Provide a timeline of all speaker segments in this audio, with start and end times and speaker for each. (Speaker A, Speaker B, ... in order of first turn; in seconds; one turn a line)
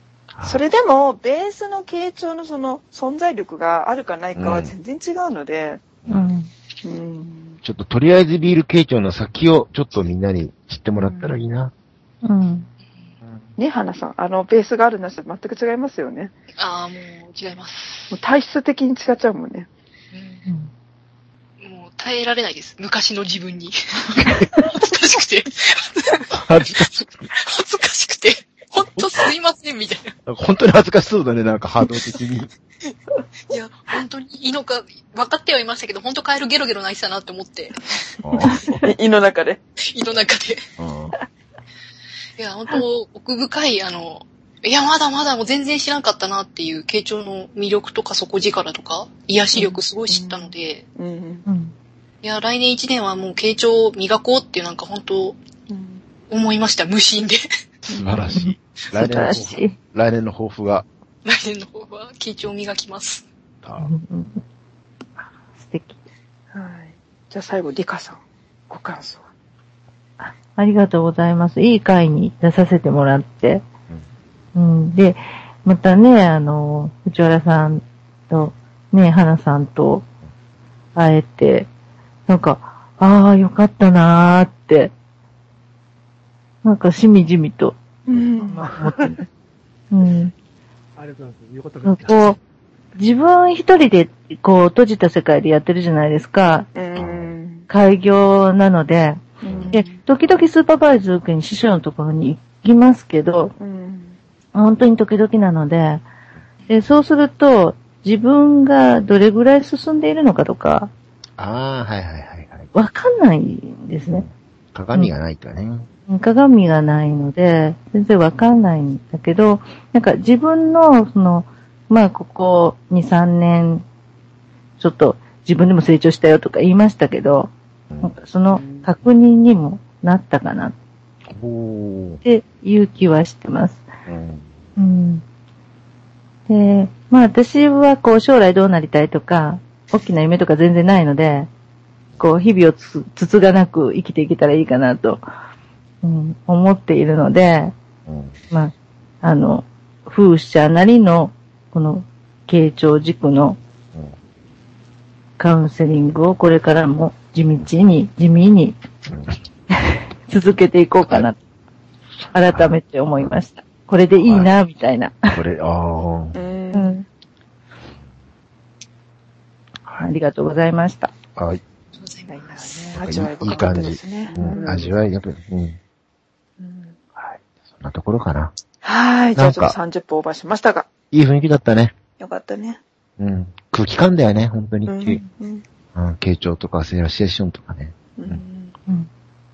Speaker A: 0.3-0.6
Speaker B: 0.4-5.8
Speaker A: 4.3-4.7
Speaker C: 6.1-6.5
Speaker B: 6.8-7.6
Speaker A: 7.6-11.7
Speaker B: 11.0-11.3
Speaker C: 12.2-12.7
Speaker B: 13.6-16.3
Speaker D: 16.6-18.2
Speaker B: 18.1-19.7
Speaker D: 20.1-20.4
Speaker C: 20.4-20.7
Speaker D: 21.6-30.1
Speaker A: 26.3-27.3
Speaker A: 30.2-32.5
Speaker D: 33.5-37.9
Speaker A: 38.2-38.6
Speaker C: 38.4-38.8
Speaker B: 38.7-39.6
Speaker D: 39.9-40.6
Speaker A: 40.8-41.1
Speaker D: 42.4-50.9
Speaker B: 49.5-51.4
Speaker C: 51.5-51.7
Speaker D: 52.2-55.4
Speaker B: 55.7-56.0
Speaker D: 56.3-57.5
Speaker A: 57.8-60.9
Speaker C: 58.3-59.8
Speaker D: 61.2-63.2
Speaker A: 63.6-63.9
Speaker C: 63.8-64.4
Speaker C: 65.6-66.0
Speaker B: 66.5-69.2
Speaker C: 70.2-73.6
Speaker C: 74.5-80.0
Speaker C: 80.9-81.7
Speaker C: 82.3-84.9
Speaker C: 86.6-87.8
Speaker B: 88.1-88.7
Speaker C: 88.5-89.2
Speaker E: 88.6-89.2
Speaker C: 89.9-90.3
Speaker E: 91.0-92.3
Speaker C: 91.8-92.4
Speaker C: 93.0-96.7
Speaker B: 96.7-97.7
Speaker A: 97.0-97.3
Speaker C: 97.7-103.5
Speaker B: 99.4-100.0
Speaker A: 99.5-99.7
Speaker B: 103.6-104.2
Speaker C: 104.5-106.0
Speaker C: 106.7-110.9
Speaker A: 111.4-112.7
Speaker C: 112.7-114.2
Speaker A: 114.1-115.9
Speaker C: 116.1-123.8
Speaker C: 124.8-130.7
Speaker A: 131.3-132.2
Speaker C: 132.2-133.8
Speaker A: 134.1-134.4
Speaker C: 134.8-135.2
Speaker C: 136.5-141.5
Speaker C: 142.2-145.2
Speaker C: 146.0-147.7
Speaker A: 148.1-148.3
Speaker C: 148.5-153.6
Speaker C: 155.4-158.8
Speaker C: 159.8-161.3
Speaker C: 162.3-165.4
Speaker A: 162.4-162.7
Speaker A: 164.2-164.5
Speaker A: 165.3-166.4
Speaker B: 166.3-167.0
Speaker C: 166.7-167.0
Speaker C: 170.0-171.1
Speaker A: 171.3-171.6
Speaker D: 171.9-173.0
Speaker B: 172.3-174.9
Speaker A: 173.0-175.8
Speaker B: 176.6-177.0
Speaker A: 177.8-178.5
Speaker B: 178.8-180.9
Speaker A: 179.3-179.8
Speaker A: 181.1-181.9
Speaker B: 182.2-182.8
Speaker A: 183.2-185.2
Speaker B: 184.9-185.6
Speaker A: 185.9-188.4
Speaker B: 188.2-188.7